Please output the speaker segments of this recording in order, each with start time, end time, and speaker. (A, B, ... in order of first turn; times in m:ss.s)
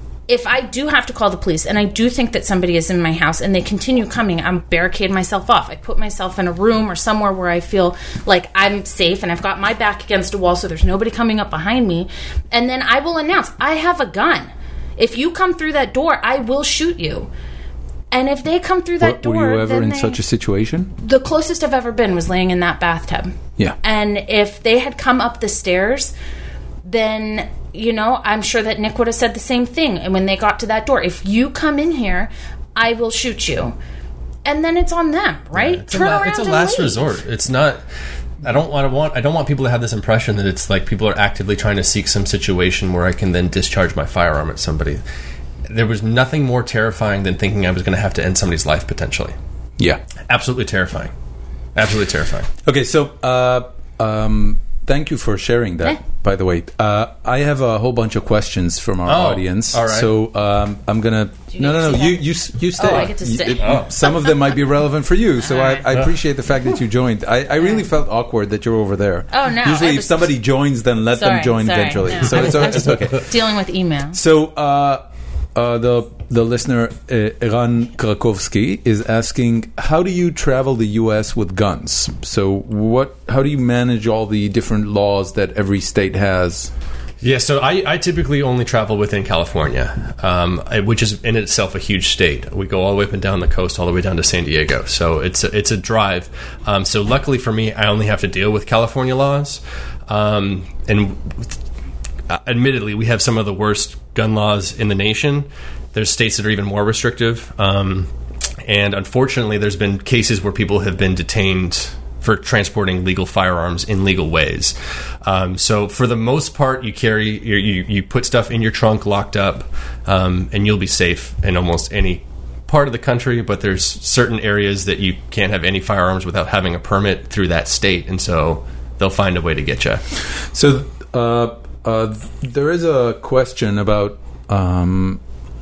0:00.3-0:17.3 A
0:18.1-0:20.2 A
0:19.0-0:20.9 B
0:21.0-0:26.1 A
0:26.8-0:33.7 A
0:34.4-0:37.1 A
0:35.5-0:37.8 C
0:38.4-0:45.0 C
0:45.7-0:49.4 C
0:50.3-0:51.1 C
0:51.7-0:52.5 C
0:52.6-1:13.3 B
0:59.0-1:00.1 C
1:01.5-1:02.2 A
1:02.8-1:04.4 A
1:02.8-1:03.9 C
1:05.4-1:05.8 A
1:09.3-1:10.3 A
1:11.1-1:14.2 A
1:12.3-1:12.9 C
1:14.1-1:15.0 B
1:15.5-1:26.7 B
1:27.2-1:41.6 C
1:42.3-1:48.1 C
1:48.6-2:10.0 C
2:10.5-2:15.2 B